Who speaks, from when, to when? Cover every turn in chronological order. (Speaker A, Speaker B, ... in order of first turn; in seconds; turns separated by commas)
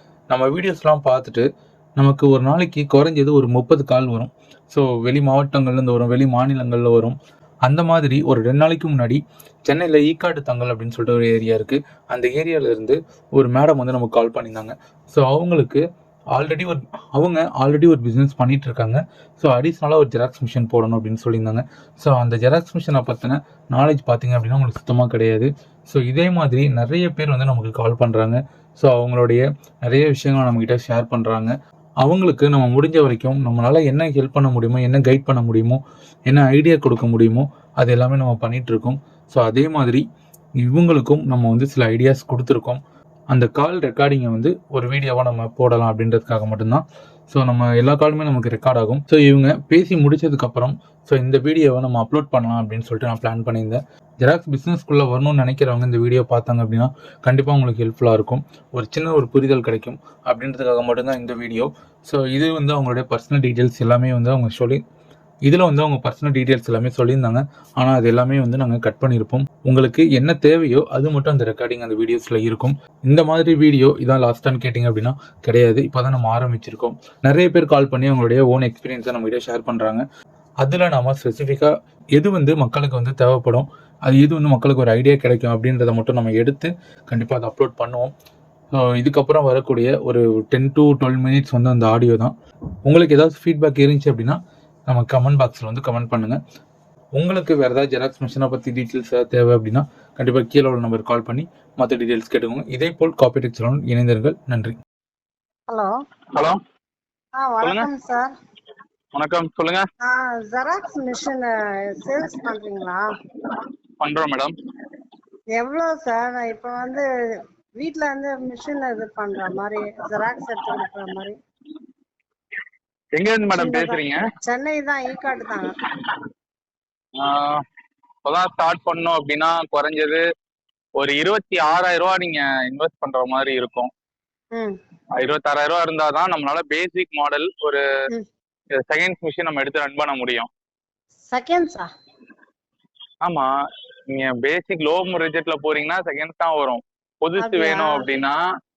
Speaker A: 0.3-1.4, Speaker A: 2.0-15.8, Speaker A: 16.3-40.0, Speaker A: 40.6-42.8, Speaker A: 43.3-64.8, Speaker A: 65.5-80.0, Speaker A: 80.6-88.1, Speaker A: 88.8-92.3, Speaker A: 92.8-96.4, Speaker A: 97.2-104.8, Speaker B: 107.4-108.3, Speaker C: 107.6-107.9, Speaker C: 109.2-109.8, Speaker B: 110.1-111.5, Speaker B: 112.0-113.0, Speaker C: 114.0-114.5, Speaker B: 115.6-117.0, Speaker B: 117.8-121.3, Speaker C: 123.2-124.2, Speaker B: 123.5-125.7, Speaker C: 127.2-127.6, Speaker C: 128.2-130.2, Speaker C: 131.0-133.9, Speaker C: 135.2-137.8, Speaker C: 138.8-140.5, Speaker B: 141.3-141.9, Speaker C: 144.1-148.4, Speaker B: 147.4-148.1